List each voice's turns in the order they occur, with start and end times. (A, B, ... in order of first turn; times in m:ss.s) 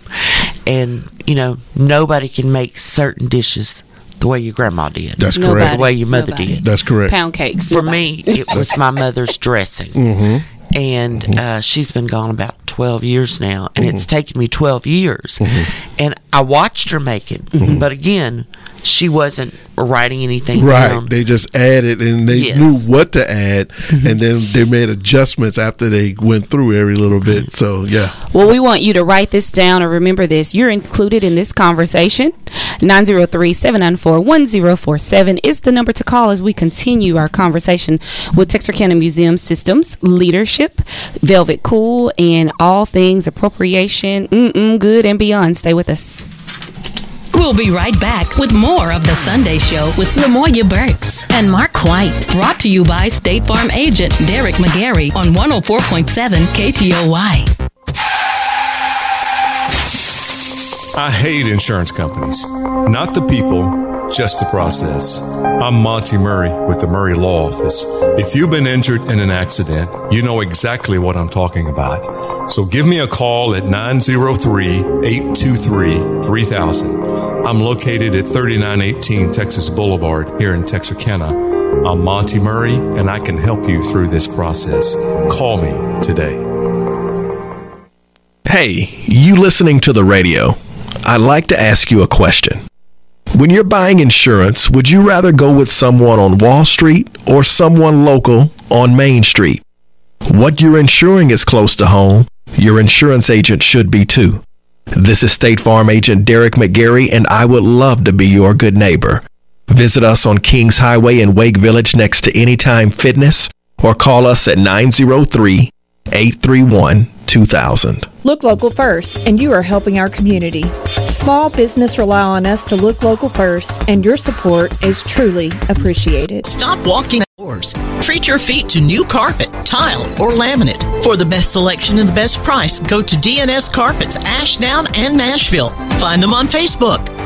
0:00.2-0:06.6 A
0:05.2-0:05.9 B
0:05.4-0:08.7 C
0:06.6-0:07.2 B
0:07.7-0:10.1 A
0:10.0-0:10.4 B
0:10.7-0:21.1 A
0:15.4-0:15.7 B
0:17.5-0:17.8 C
0:17.6-0:17.9 B
0:20.6-0:28.2 B
0:22.3-0:22.8 A
0:23.9-0:24.2 C
0:28.3-0:46.3 C
0:47.3-0:57.5 D
1:01.0-1:26.4 E
1:28.5-1:32.6 F
1:33.4-1:39.6 F
1:40.3-1:44.4 F
1:44.9-1:58.1 F
1:58.2-2:06.4 G
2:06.4-2:17.1 H